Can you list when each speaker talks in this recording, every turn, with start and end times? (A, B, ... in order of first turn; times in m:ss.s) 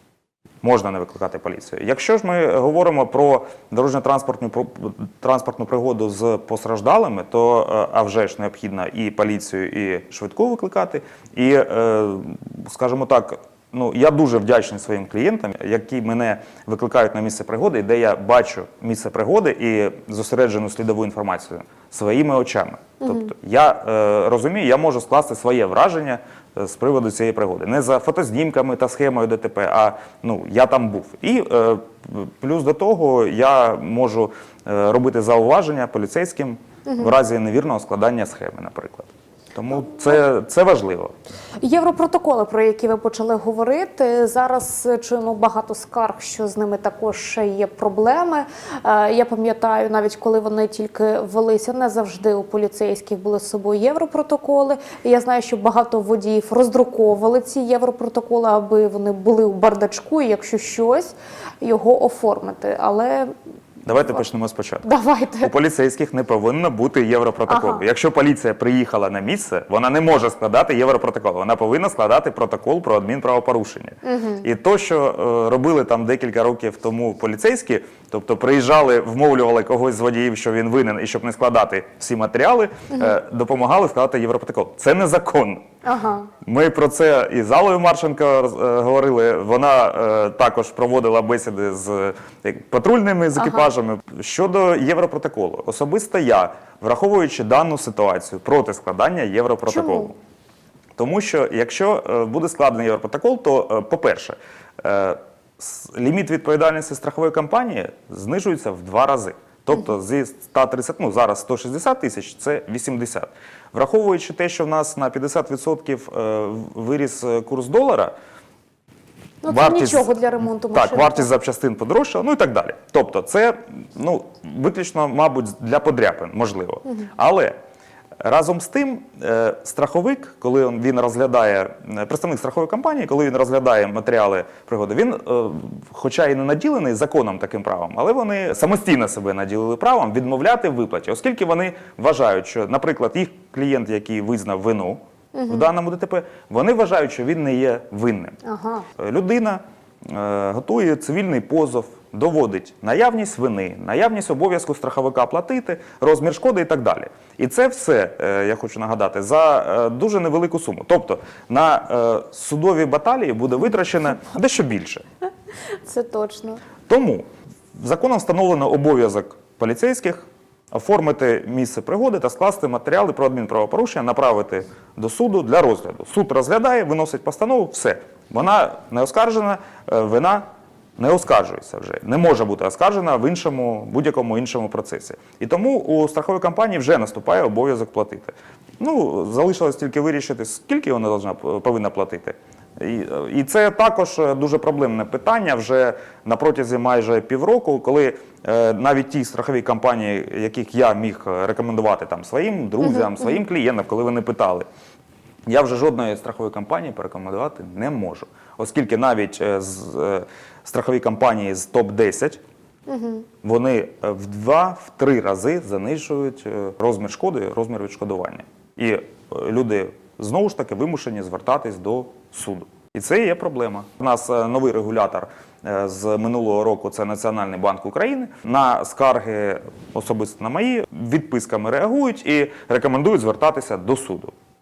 0:00.6-0:41.1 A
0:23.0-0:23.3 B
0:41.6-1:03.3 B
1:03.8-1:04.9 A
1:04.8-1:05.5 B
1:05.4-1:25.6 A
1:07.5-1:07.8 B
1:14.0-1:14.4 B
1:25.8-1:26.3 B
1:26.4-1:40.2 A
1:39.7-1:40.1 B
1:41.0-1:58.1 A
1:59.4-2:01.3 B
1:59.5-2:00.1 A
2:00.7-2:07.6 A
2:08.2-2:28.4 A
2:25.3-2:25.6 B
2:28.4-2:28.9 B
2:29.0-2:45.0 A
2:45.8-2:46.6 B
2:46.9-2:47.2 A
2:47.8-3:00.4 A
3:01.0-3:24.6 A
3:25.5-3:32.4 A
3:32.9-3:33.3 B
3:33.4-3:54.3 A